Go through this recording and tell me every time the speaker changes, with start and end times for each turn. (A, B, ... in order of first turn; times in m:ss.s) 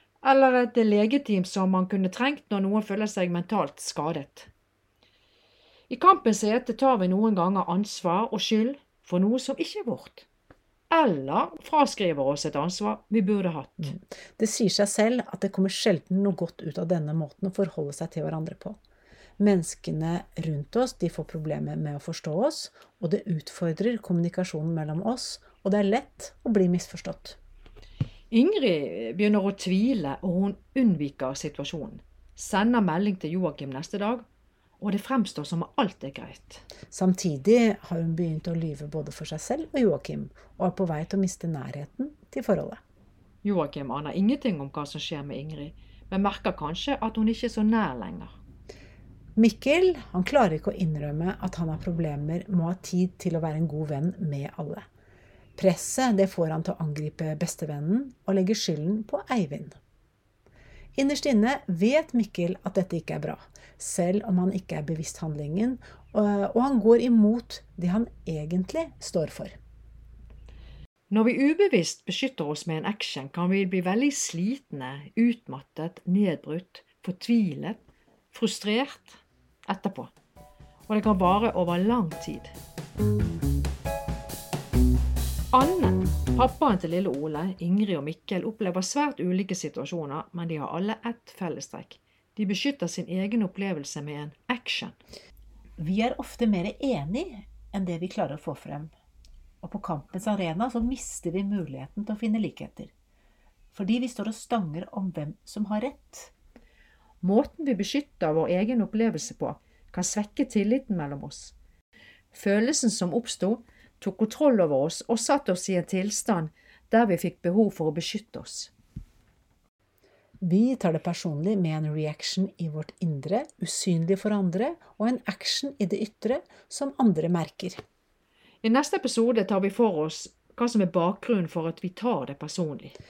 0:00.2-0:04.5 A
0:05.9-0:10.3 A
0:10.9-0:14.0 A
0:14.4-0:18.8 B
0:19.4-0:27.4 B
0:28.3-0:34.2 A
0:34.8-0:36.6 A
0:36.9-0:42.8 B
0:43.4-0:48.4 A
0:49.4-0:54.9 B
0:55.6-0:59.8 B
1:01.0-1:09.6 B
1:11.1-1:17.8 A
1:18.3-1:20.1 A
1:20.9-1:22.5 A
1:25.5-1:35.0 A
1:35.8-1:38.9 B
1:39.6-1:42.9 B
1:43.7-1:46.3 B
1:47.2-1:51.6 A
1:52.3-1:58.7 A
2:00.4-2:07.8 B
2:08.6-2:13.0 A